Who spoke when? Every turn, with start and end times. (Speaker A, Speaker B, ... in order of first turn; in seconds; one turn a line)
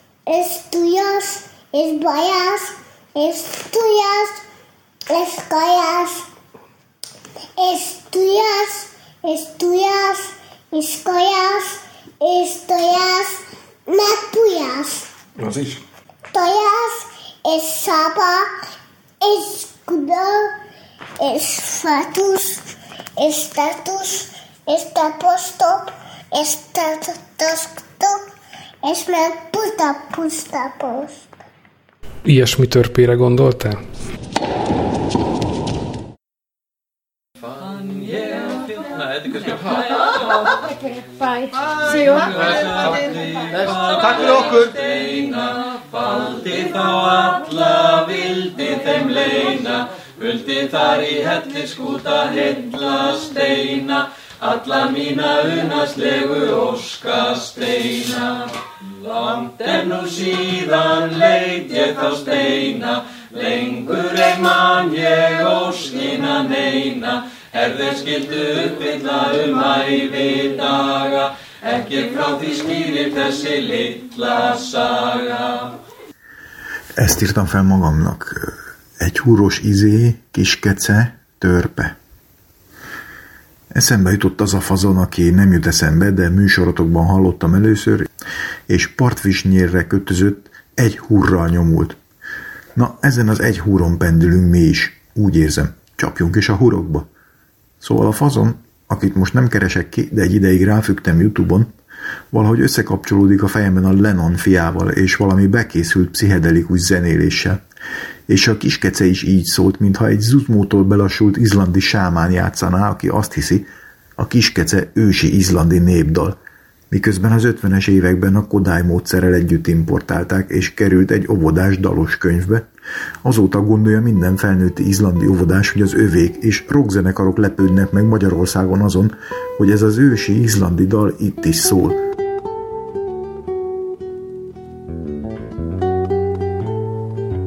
Speaker A: 0.3-4.4
Speaker A: 5.1-6.3
Speaker A: 7.6-15.1
Speaker B: 15.4-15.8
Speaker A: 16.3-18.5
Speaker A: 19.2-20.5
Speaker A: 21.2-22.6
Speaker A: 23.2-28.2
Speaker A: 28.8-31.2
Speaker B: 32.2-33.8
Speaker C: 38.1-38.4
Speaker C: 38.9-39.9
Speaker C: 42.1-75.7
Speaker D: 77.0-82.0
Speaker D: 83.7-88.1
Speaker D: 88.7-92.0
Speaker D: 92.8-97.1
Speaker D: 97.8-101.7
Speaker D: 102.3-107.6
Speaker D: 108.3-116.4
Speaker D: 116.9-122.7
Speaker D: 123.2-132.0